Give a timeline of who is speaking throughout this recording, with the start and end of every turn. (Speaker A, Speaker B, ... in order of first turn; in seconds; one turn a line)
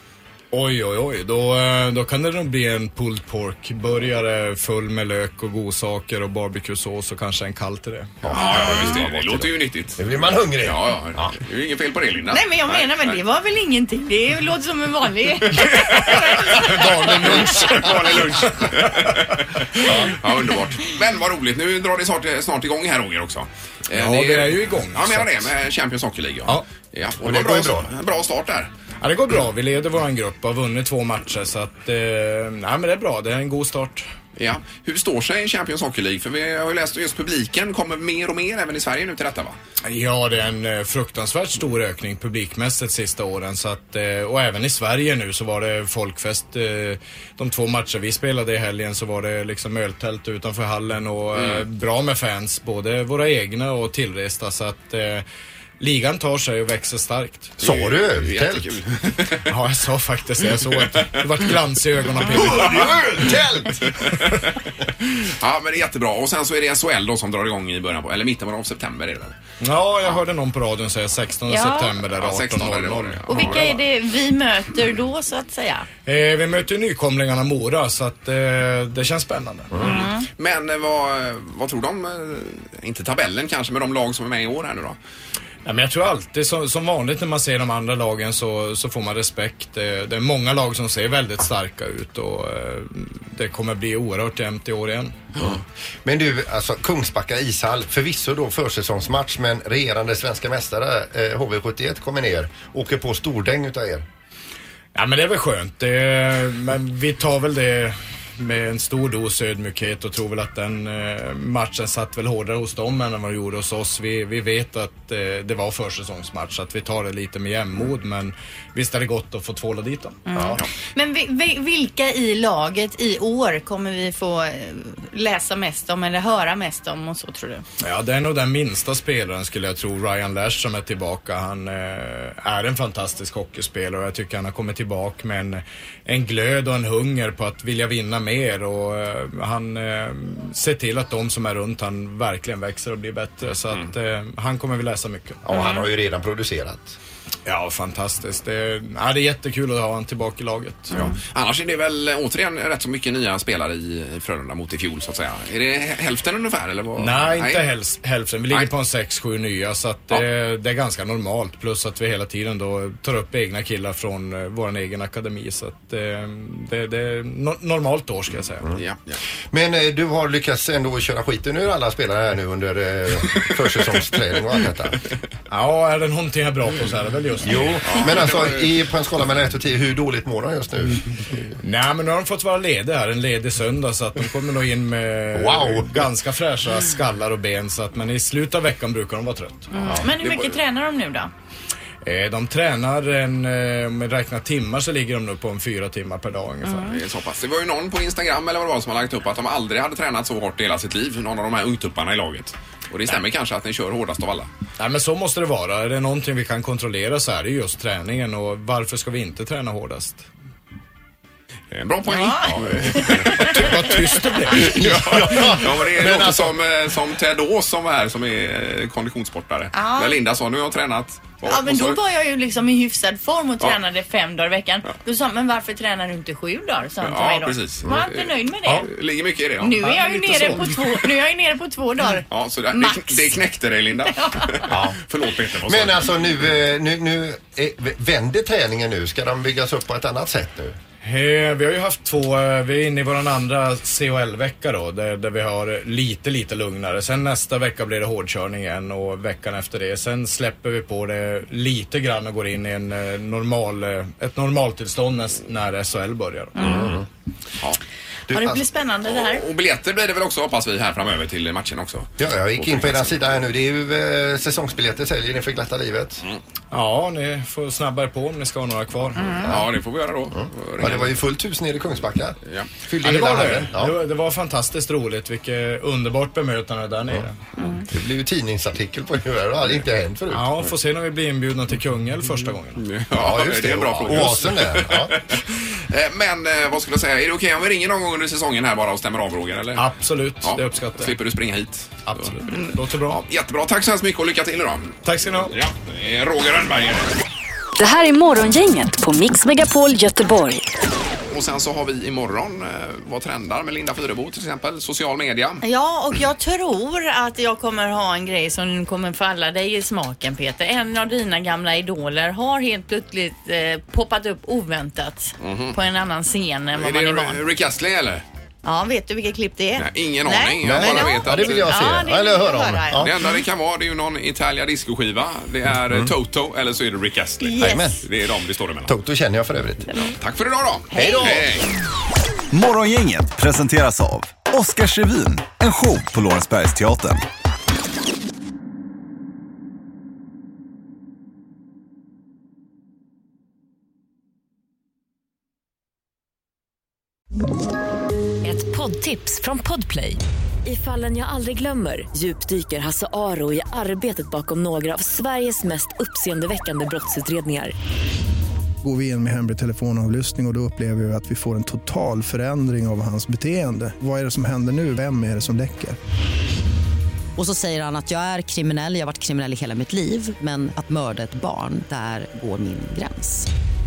Speaker A: 0.5-8.3
Speaker B: 8.2-11.3
Speaker C: 8.3-13.2
Speaker D: 12.3-17.5
Speaker C: 15.9-28.7
Speaker A: 16.5-19.1
Speaker B: 19.9-20.1
Speaker A: 23.9-25.5
Speaker B: 27.2-27.9
Speaker A: 29.0-34.1
Speaker C: 34.4-39.6
Speaker A: 39.9-55.2
Speaker C: 51.4-51.6
Speaker A: 55.8-57.6
Speaker B: 57.6-58.8
Speaker C: 57.6-59.4
Speaker A: 59.5-62.9
Speaker C: 62.2-63.2
Speaker B: 62.3-63.9
Speaker C: 63.8-64.6
Speaker C: 65.2-69.4
Speaker A: 69.6-73.8
Speaker D: 71.5-71.9
Speaker C: 72.1-73.7
Speaker D: 73.3-75.9
Speaker A: 76.1-79.7
Speaker C: 79.8-85.0
Speaker D: 79.8-80.2
Speaker A: 85.7-95.3
Speaker B: 95.4-104.1
Speaker A: 104.9-120.2
Speaker D: 120.3-127.7
Speaker B: 120.3-120.6
Speaker A: 127.8-145.4
Speaker B: 145.4-147.0
Speaker D: 145.5-145.8
Speaker A: 147.5-150.9
Speaker C: 150.9-157.6
Speaker A: 157.0-168.7
Speaker C: 168.7-169.2
Speaker B: 169.5-175.0
Speaker A: 175.5-177.8
Speaker B: 177.4-181.4
Speaker C: 177.8-178.7
Speaker A: 181.6-189.7
Speaker B: 185.3-186.0
Speaker D: 189.7-191.3
Speaker C: 190.1-190.6
Speaker A: 192.0-197.0
Speaker D: 196.6-197.0
Speaker C: 196.8-204.5
Speaker A: 204.8-210.3
Speaker C: 211.7-222.0
Speaker D: 212.1-213.6
Speaker A: 213.4-215.1
Speaker B: 214.6-216.6
Speaker D: 219.7-220.2
Speaker D: 221.4-228.9
Speaker C: 227.0-230.5
Speaker D: 229.6-233.4
Speaker B: 230.3-230.6
Speaker C: 232.3-236.2
Speaker D: 234.1-234.6
Speaker B: 234.7-235.0
Speaker B: 235.6-240.8
Speaker A: 241.0-256.6
Speaker D: 256.6-256.9
Speaker B: 256.6-257.0
Speaker B: 258.3-258.6
Speaker D: 258.3-259.4
Speaker C: 259.1-263.2
Speaker B: 262.2-266.2
Speaker A: 266.7-269.4
Speaker D: 269.2-269.5
Speaker C: 269.4-271.1
Speaker B: 270.8-272.4
Speaker B: 272.9-274.0
Speaker A: 273.0-277.4
Speaker B: 277.9-280.5
Speaker A: 280.3-282.8
Speaker C: 282.8-285.4
Speaker B: 283.1-285.2
Speaker C: 285.9-289.9
Speaker A: 289.8-291.2
Speaker C: 290.4-292.7
Speaker A: 292.1-293.3
Speaker C: 293.3-294.9
Speaker A: 295.0-295.5
Speaker C: 295.5-297.1
Speaker E: 297.8-300.7
Speaker C: 301.3-305.6
Speaker D: 305.6-317.4
Speaker C: 315.4-315.8
Speaker C: 316.8-318.2
Speaker D: 318.6-323.1
Speaker C: 319.8-321.7
Speaker B: 320.6-323.1
Speaker C: 322.9-328.9
Speaker B: 325.9-326.1
Speaker D: 327.4-328.0
Speaker B: 327.6-328.1
Speaker B: 328.9-329.9
Speaker C: 330.0-331.7
Speaker D: 330.9-331.4
Speaker B: 331.0-331.4
Speaker F: 332.5-337.2
Speaker G: 348.4-357.7
Speaker H: 358.8-366.0
Speaker I: 367.4-373.5